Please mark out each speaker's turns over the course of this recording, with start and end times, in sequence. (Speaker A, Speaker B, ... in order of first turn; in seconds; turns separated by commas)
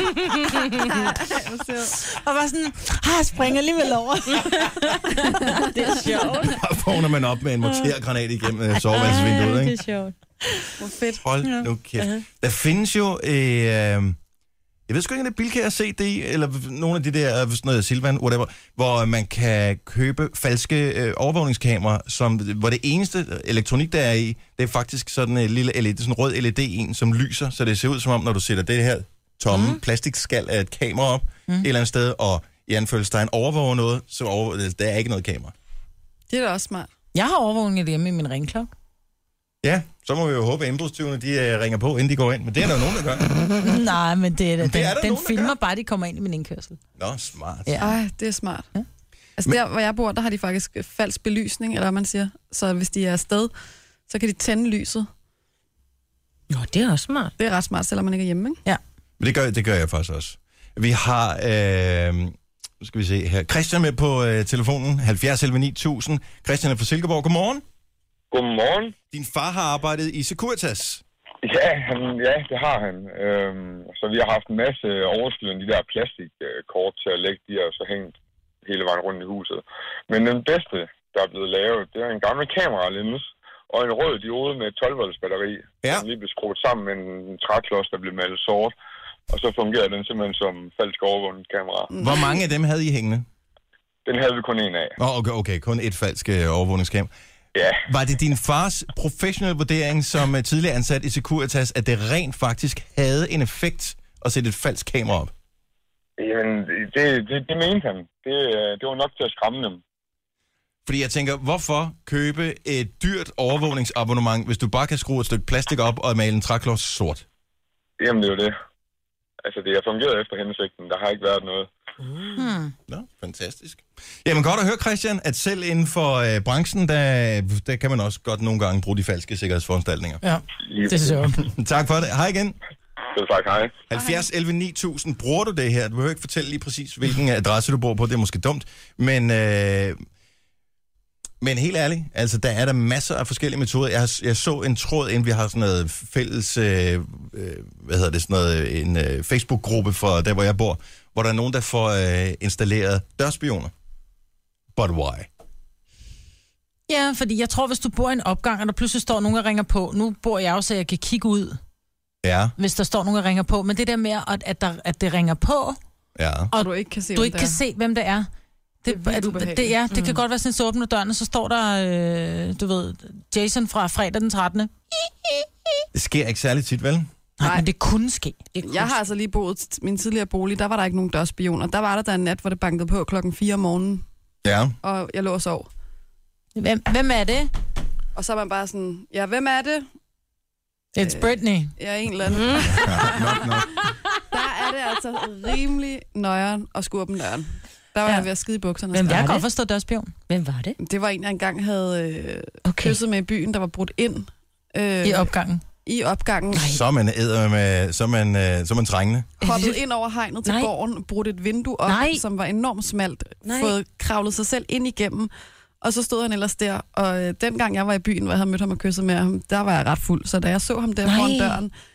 Speaker A: 0.4-1.0, Speaker B: 0.9-2.0, Speaker A: 1.9-5.1, Speaker C: 4.3-6.6, Speaker D: 6.4-9.8, Speaker C: 7.6-7.9, Speaker C: 8.8-10.6, Speaker B: 10.8-11.2, Speaker D: 11.1-14.2, Speaker D: 14.9-35.5, Speaker C: 29.5-29.8, Speaker B: 36.3-36.9, Speaker A: 37.1-38.7, Speaker D: 39.6-43.3, Speaker A: 43.6-46.8, Speaker D: 44.6-45.5, Speaker D: 47.0-47.8, Speaker A: 47.6-48.0, Speaker B: 47.8-48.7, Speaker B: 49.4-53.5, Speaker B: 54.1-55.1, Speaker C: 56.5-57.3, Speaker B: 57.4-58.6, Speaker D: 59.2-67.6, Speaker E: 68.3-68.9, Speaker D: 69.1-71.0, Speaker E: 71.4-88.7, Speaker E: 89.3-91.9, Speaker B: 91.9-92.4, Speaker D: 92.0-93.2, Speaker E: 94.1-95.0, Speaker D: 95.0-97.1, Speaker E: 97.5-97.8, Speaker D: 97.8-105.3, Speaker E: 106.2-109.8, Speaker D: 110.8-117.2, Speaker E: 118.0-118.6, Speaker E: 119.4-121.7, Speaker A: 122.3-122.7, Speaker D: 122.9-130.2, Speaker A: 130.2-131.4, Speaker E: 130.7-131.2, Speaker D: 131.3-132.6, Speaker E: 133.1-133.9, Speaker D: 133.9-140.0, Speaker D: 141.4-153.7, Speaker D: 154.8-155.3, Speaker A: 156.9-161.6, Speaker D: 162.2-162.5, Speaker A: 162.6-165.8, Speaker D: 166.2-166.5, Speaker A: 166.5-168.3, Speaker B: 166.5-167.6, Speaker A: 168.8-174.7, Speaker B: 168.9-169.7, Speaker C: 169.9-170.2, Speaker D: 175.9-177.1, Speaker A: 177.4-178.5, Speaker B: 177.4-177.7, Speaker C: 178.5-178.9, Speaker B: 178.6-184.0, Speaker D: 184.4-184.8, Speaker B: 184.8-185.7, Speaker A: 186.6-187.5, Speaker B: 188.1-189.8, Speaker A: 190.9-191.7, Speaker B: 191.0-193.3, Speaker C: 192.3-192.8, Speaker D: 192.7-193.8, Speaker B: 194.3-199.3, Speaker C: 198.9-199.4, Speaker A: 198.9-200.1, Speaker C: 200.3-200.8, Speaker B: 200.8-205.3, Speaker C: 202.7-203.0, Speaker A: 205.0-205.6, Speaker B: 205.8-206.7, Speaker C: 206.5-206.8, Speaker D: 206.6-209.4, Speaker B: 209.4-221.7, Speaker C: 209.4-209.8, Speaker C: 210.4-210.7, Speaker C: 211.8-212.2, Speaker C: 213.4-213.8, Speaker C: 221.0-221.6